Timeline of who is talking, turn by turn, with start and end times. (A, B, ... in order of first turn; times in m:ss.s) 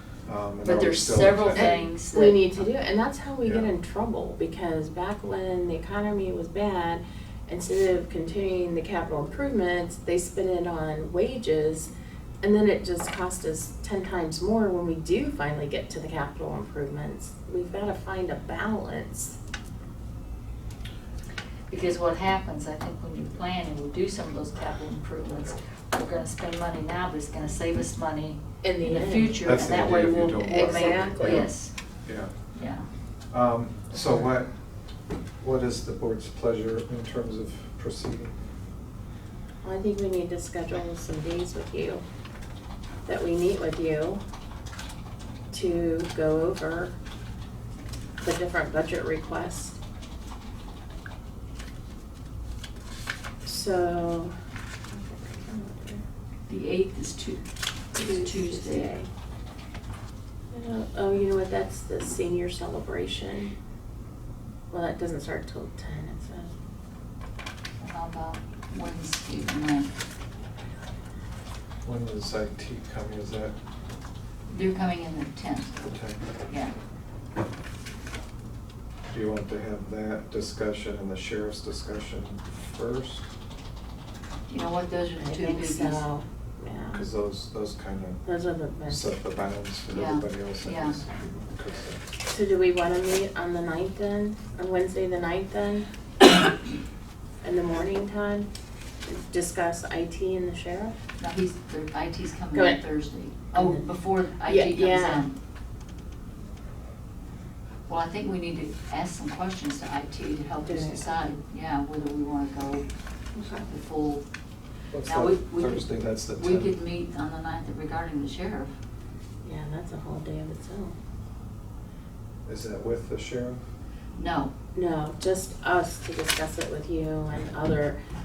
0:00.3-0:01.8 A
0:00.6-0:02.5 B
0:01.5-0:11.9 C
0:03.4-0:03.7 A
0:12.4-0:19.4 C
0:21.7-0:31.7 B
0:28.6-0:29.4 C
0:29.4-0:31.5 A
0:30.4-0:31.5 C
0:32.0-0:32.3 A
0:32.5-0:32.9 B
0:33.3-0:34.5 A
0:35.4-0:38.3 A
0:39.6-0:42.0 C
0:43.0-0:44.2 C
0:45.5-0:46.9 C
0:48.2-0:49.8 C
0:53.4-0:54.3 C
0:54.9-0:56.0 C
0:56.5-0:57.4 B
0:58.0-0:59.1 C
0:58.0-0:58.9 B
1:00.5-1:03.5 C
1:04.7-1:06.5 C
1:07.8-1:09.9 B
1:11.8-1:13.6 A
1:14.5-1:15.8 B
1:15.8-1:16.2 A
1:16.5-1:16.7 B
1:19.1-1:23.3 A
1:24.5-1:26.0 B
1:25.2-1:27.1 C
1:26.9-1:28.3 A
1:28.2-1:29.0 C
1:28.9-1:32.0 A
1:29.9-1:31.0 B
1:32.3-1:35.9 C
1:37.4-1:38.5 C
1:39.0-1:41.0 C
1:41.2-1:45.4 B
1:42.5-1:42.8 C
1:43.5-1:43.8 C
1:44.4-1:45.3 C
1:47.9-1:52.8 B
1:50.6-1:51.1 C
1:53.3-1:53.7 C
1:53.6-1:54.2 B
1:54.9-1:56.8 A
1:55.0-1:58.7 B
1:59.4-2:00.9 C
2:02.4-2:03.6 A
2:04.2-2:04.5 B
2:04.8-2:08.0 C